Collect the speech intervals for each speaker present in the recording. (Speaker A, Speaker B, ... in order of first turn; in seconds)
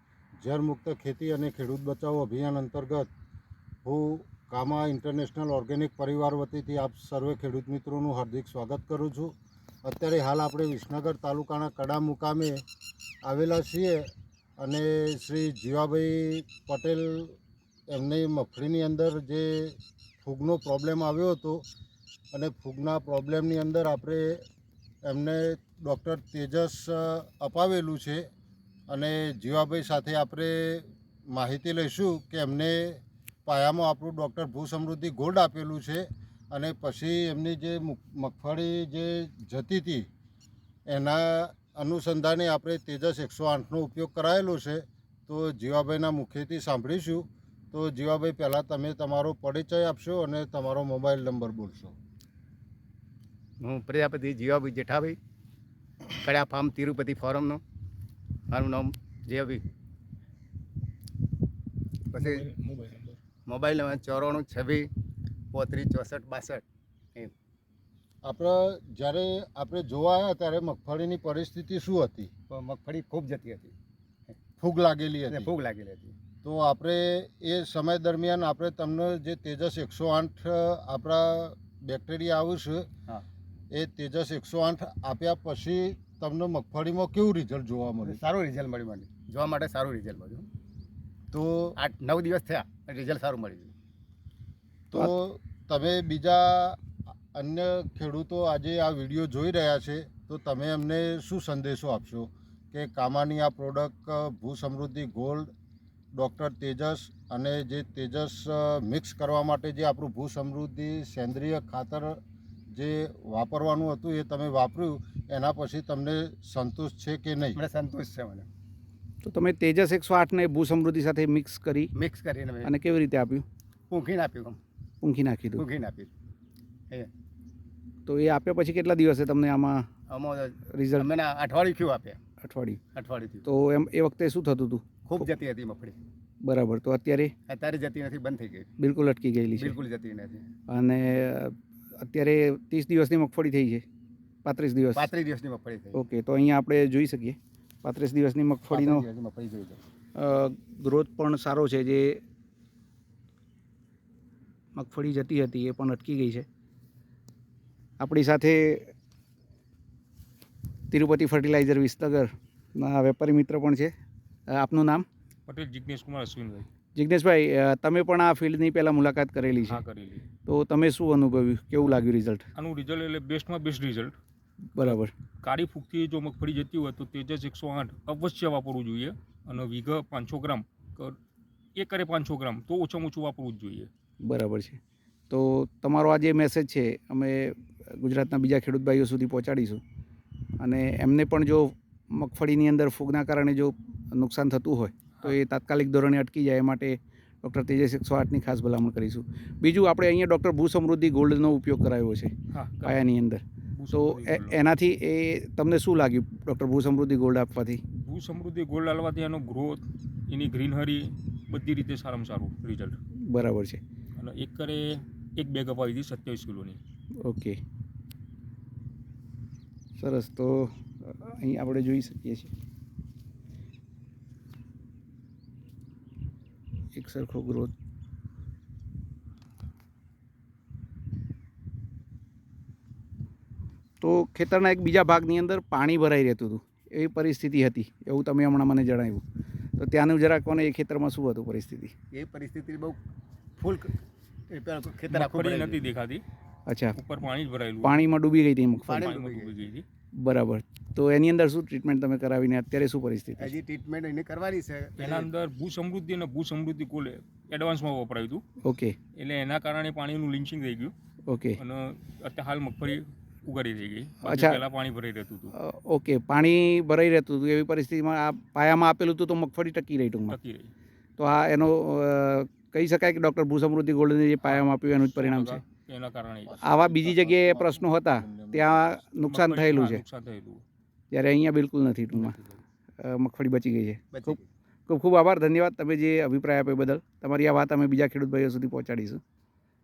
Speaker A: 0.4-3.1, 3.8-9.3, 9.8-12.6, 13.2-14.1, 14.6-17.4, 17.9-21.6, 22.3-24.4, 25.0-28.3, 28.9-40.1, 40.9-51.9, 68.2-72.3, 74.6-75.5, 76.4-82.9, 83.7-88.2, 91.3-91.8, 94.9-96.8, 97.3-105.5, 106.1-112.2, 112.7-117.6, 276.4-279.1
Speaker B: 53.6-55.2, 56.1-57.6, 58.5-59.6, 62.1-62.5, 63.5-64.9, 65.5-66.6, 72.5-73.7, 75.3-76.2, 88.0-90.5, 91.8-93.7, 117.5-118.5, 121.9-122.7, 123.9-124.6, 125.6-126.1, 130.1-132.2, 132.9-133.5, 135.1-136.0, 137.5-138.7, 139.6-140.4, 144.9-146.0, 148.7-149.8, 242.1-243.0, 243.6-243.9, 244.5-245.8, 248.8-249.5, 253.4-255.2, 284.1-284.4
Speaker C: 62.5-63.1, 119.2-121.9, 122.6-123.4, 125.0-125.6, 128.0-129.9, 130.7-131.1, 132.4-132.8, 133.4-135.3, 136.4-137.3, 138.8-139.8, 140.7-143.8, 144.4-145.1, 145.9-149.1, 150.1-152.2, 154.7-156.5, 158.0-158.9, 160.9-163.9, 164.5-165.1, 166.9-169.8, 170.4-172.4, 174.7-175.1, 184.2-189.8, 190.6-207.8, 213.2-213.8, 217.2-217.6, 219.9-222.5, 226.9-227.7, 234.0-239.2, 239.8-241.9, 246.7-247.0, 247.8-249.0, 250.2-253.6, 258.6-259.0, 261.3-261.6, 264.2-264.6, 265.5-270.4, 271.2-275.6, 276.6-280.0, 281.1-282.4, 283.0-289.2
Speaker D: 165.5-166.7, 169.6-170.3, 172.5-174.2, 174.8-181.2, 181.7-183.9, 202.5-203.1, 203.7-204.6, 208.0-213.0, 214.2-216.8, 245.1-246.2, 246.9-248.0, 248.8-249.8, 255.0-258.4, 259.1-260.9, 261.6-265.5, 270.2-270.7, 274.4-276.6, 279.2-280.6, 282.2-282.6